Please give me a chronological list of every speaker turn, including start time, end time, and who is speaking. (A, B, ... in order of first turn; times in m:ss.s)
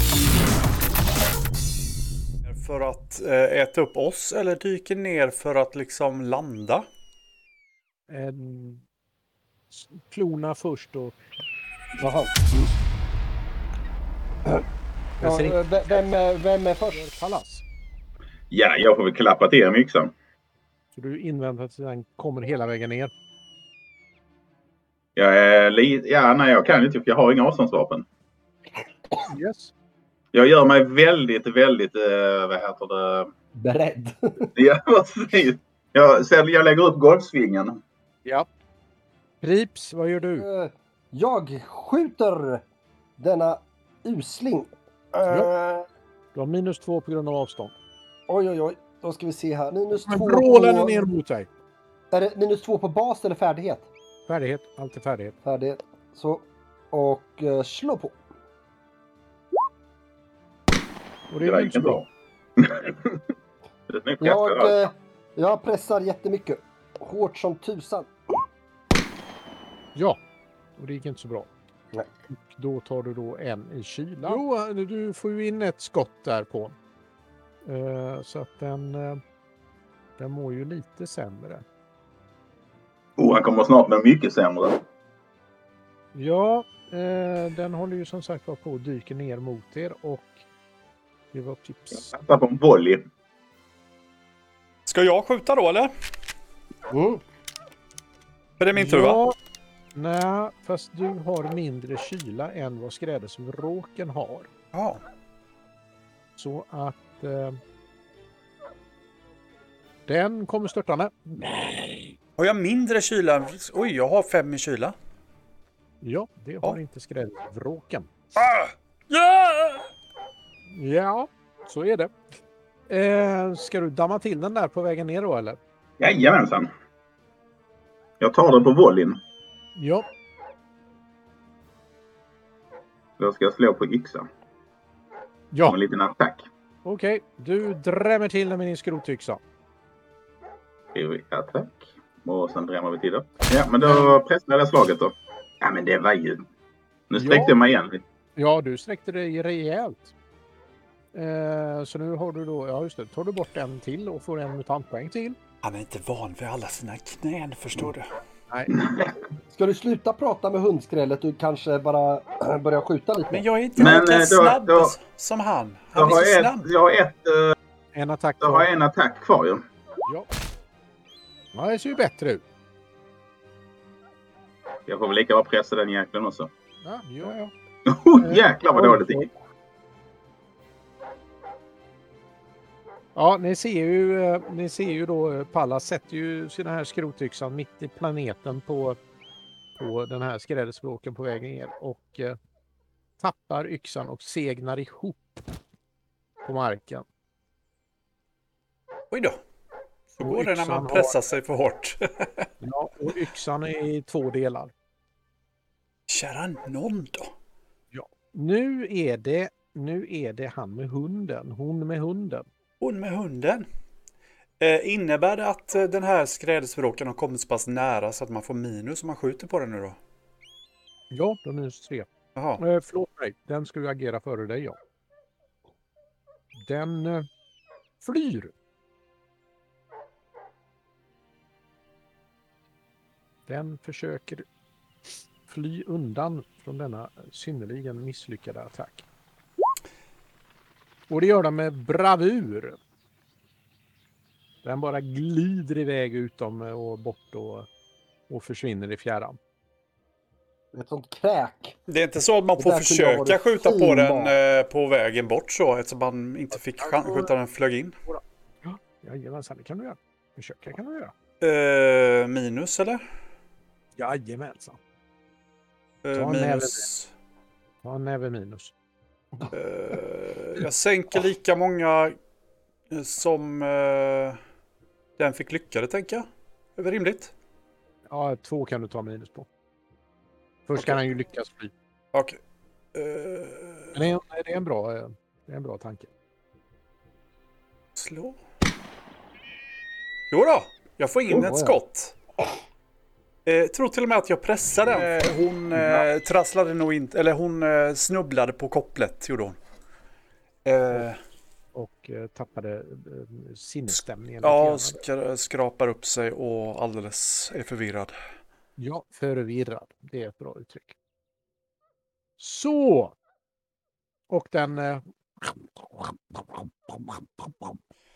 0:02.4-0:06.8 A
0:08.1-0:08.8 B
0:09.7-0:11.2 B
0:12.0-0:12.7 C
0:15.2-0:15.7 B
0:15.2-0:17.0 C
0:16.8-0:17.6 B
0:18.5-0:20.1 D
0:20.9-0:23.1 B
0:25.2-0:28.0 D
0:29.2-0:29.7 B
0:30.3-0:33.3 D
0:33.6-0:34.5 C
0:34.6-0:37.8 D
0:39.4-0:40.5 B
0:40.4-0:42.6 C
0:43.2-0:45.9 C
0:46.3-0:47.8 B
0:48.3-0:51.0 C
0:50.1-0:51.5 B
0:52.1-0:53.9 C
0:54.3-0:55.4 B
0:55.4-0:58.2 C
1:01.3-1:02.0 B
1:01.4-1:02.1 D
1:02.6-1:03.2 D
1:03.9-1:04.8 D
1:04.2-1:08.4 C
1:10.8-1:11.5 B
1:12.3-1:16.8 B
1:17.6-1:19.2 B
1:20.2-1:21.6 B
1:23.2-1:24.8 D
1:26.2-1:30.4 B
1:31.3-1:32.1 B
1:31.9-1:33.1 D
1:34.9-1:35.9 A
1:36.9-1:37.2 C
1:38.6-1:39.2 A
1:38.8-1:39.4 B
1:39.9-1:44.5 B
1:44.7-1:45.0 A
1:46.4-1:47.6 B
1:50.1-1:52.2 B
1:52.4-1:55.0 A
1:56.0-1:58.1 B
1:58.4-1:59.9 A
2:00.7-2:02.1 B
2:02.9-2:05.6 B
2:06.0-2:06.7 D
2:08.2-2:09.2 D
2:09.8-2:10.1 B
2:13.2-2:14.3 D
2:15.5-2:15.8 B
2:15.7-2:16.5 D
2:16.8-2:19.4 B
2:20.9-2:26.5 D
2:23.8-2:24.2 B
2:27.1-2:28.0 D
2:27.2-2:27.6 B
2:28.4-2:30.1 B
2:31.1-2:35.4 B
2:35.6-2:38.1 A
2:38.8-2:39.1 D
2:39.5-2:43.4 C
2:43.3-2:46.7 A
2:43.8-2:44.9 D
2:46.0-2:47.6 D
2:47.9-2:48.7 B
2:48.4-2:49.6 D
2:51.5-2:52.4 B
2:54.9-2:56.5 D
2:56.8-2:57.5 B
2:57.9-2:59.3 D
2:58.2-2:59.3 B
3:03.2-3:09.0 B
3:09.8-3:12.4 B
3:13.2-3:15.3 B
3:16.4-3:17.0 B
3:19.1-3:19.4 A
3:20.2-3:21.1 B
3:20.2-3:22.5 A
3:22.6-3:24.7 B
3:26.1-3:27.3 A
3:27.9-3:32.5 B
3:32.8-3:33.7 A
3:34.6-3:40.0 A
3:41.1-3:42.1 B
3:42.4-3:42.6 A
3:42.6-3:44.8 B
3:46.6-3:47.3 B
3:48.0-3:48.5 B
3:53.5-3:54.5 B
3:55.4-3:59.1 B
4:01.1-4:02.8 B
4:04.6-4:07.7 B
4:08.3-4:09.4 B
4:10.7-4:11.8 C
4:11.9-4:18.0 A
4:12.6-4:14.4 C
4:16.8-4:17.3 B
4:18.1-4:21.1 B
4:21.4-4:23.0 A
4:24.0-4:24.8 B
4:26.0-4:27.1 A
4:26.2-4:26.9 B
4:27.8-4:28.7 B
4:29.5-4:32.2 A
4:32.9-4:34.4 A
4:35.2-4:36.3 A
4:36.8-4:37.3 A
4:38.1-4:39.5 B
4:40.7-4:41.7 B
4:43.0-4:44.0 A
4:43.9-4:46.1 B
4:48.0-4:48.4 A
4:50.3-4:52.2 A
4:51.3-4:51.8 C
4:53.5-4:59.6 A
4:55.7-4:56.1 D
5:00.6-5:01.2 A
5:01.8-5:05.0 B
5:04.4-5:08.1 A
5:08.8-5:11.0 B
5:12.4-5:13.2 B
5:14.3-5:17.8 B